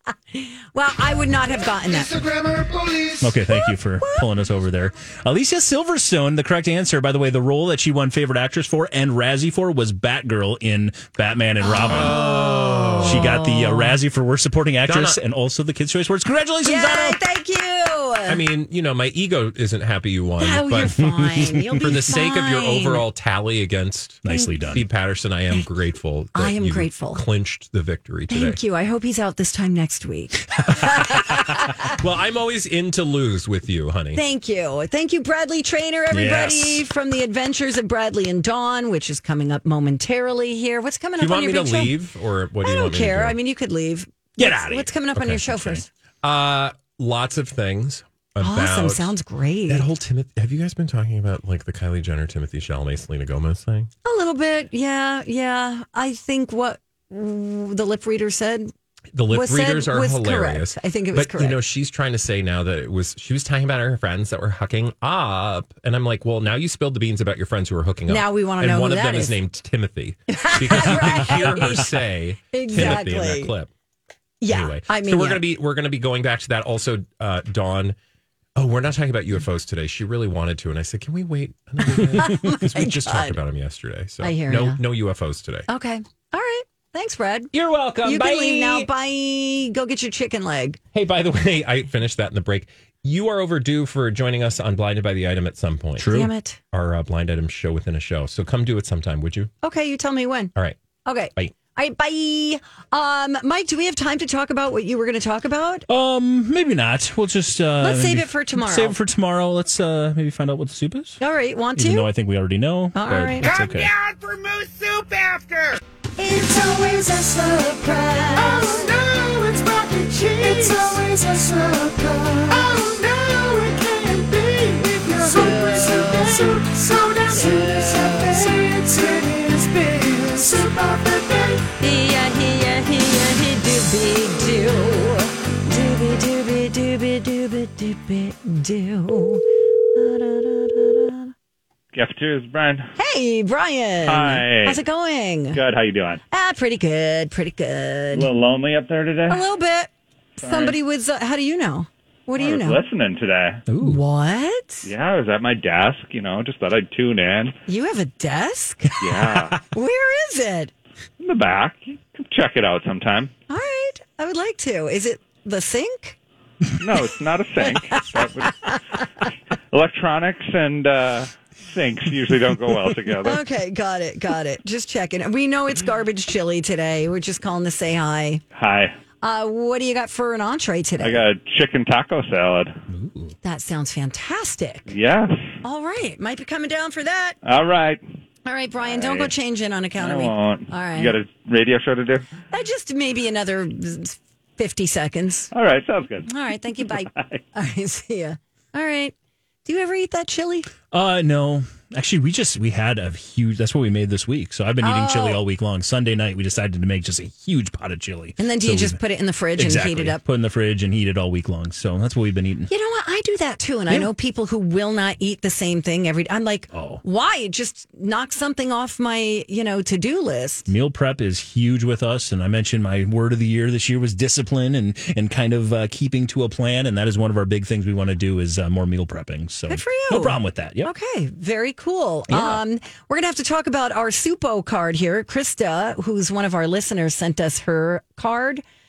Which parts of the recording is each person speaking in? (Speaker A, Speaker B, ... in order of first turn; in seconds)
Speaker A: 0.3-2.3, 3.5-4.2, 11.6-14.0, 16.6-18.4, 20.4-23.0, 26.3-27.2, 28.3-31.7, 34.1-42.0, 42.6-45.9, 48.4-49.9, 54.0-58.7, 59.3-61.6, 68.1-69.4, 70.3-71.9, 72.5-73.5, 74.4-75.4, 81.9-83.4, 84.2-84.8, 85.7-87.5, 88.0-90.8, 96.0-96.6, 99.6-100.5, 101.0-105.8, 107.8-109.0, 111.2-112.1, 112.9-113.5, 117.8-118.9, 120.4-121.0, 122.5-123.0, 125.2-126.5, 127.3-128.7, 131.8-141.3, 143.0-145.6, 146.3-148.3, 149.3-152.8, 153.8-154.9, 157.7-160.7, 163.5-166.2, 167.6-169.0, 173.2-178.4, 179.2-181.2, 183.4-184.9, 185.6-187.4, 188.4-191.2, 192.5-195.5, 196.2-199.1, 199.7-200.7, 204.8-205.4, 208.4-210.2, 212.7-220.7, 229.7-238.6
Speaker B: 1.9-3.3, 113.4-131.7
Speaker C: 3.2-12.2, 13.0-17.2, 24.2-24.9, 36.1-36.8, 44.4-45.8, 70.8-71.8, 96.0-96.3, 105.9-111.2, 111.8-113.9, 153.7-154.0, 182.9-183.3, 200.9-209.0, 209.6-212.7, 216.7-217.0, 220.7-230.9, 232.3-232.6
Speaker D: 11.8-13.4, 14.9-15.2, 18.3-21.1, 21.7-28.6, 30.7-34.2, 41.2-43.4, 46.2-49.1, 49.7-53.9, 59.1-73.7, 74.5-78.0, 78.5-85.7, 87.5-88.9, 90.9-96.1, 96.7-99.5
Speaker E: 141.9-142.9, 144.0-144.8, 145.5-146.2, 148.1-149.4, 150.4-150.8, 152.3-153.6, 154.8-157.5, 159.0-159.6, 161.2-163.3, 166.8-173.4, 178.5-178.9, 181.0-182.8, 184.9-185.4, 187.4-188.0, 188.8-189.3, 190.0-192.3, 195.5-196.3, 196.8-197.4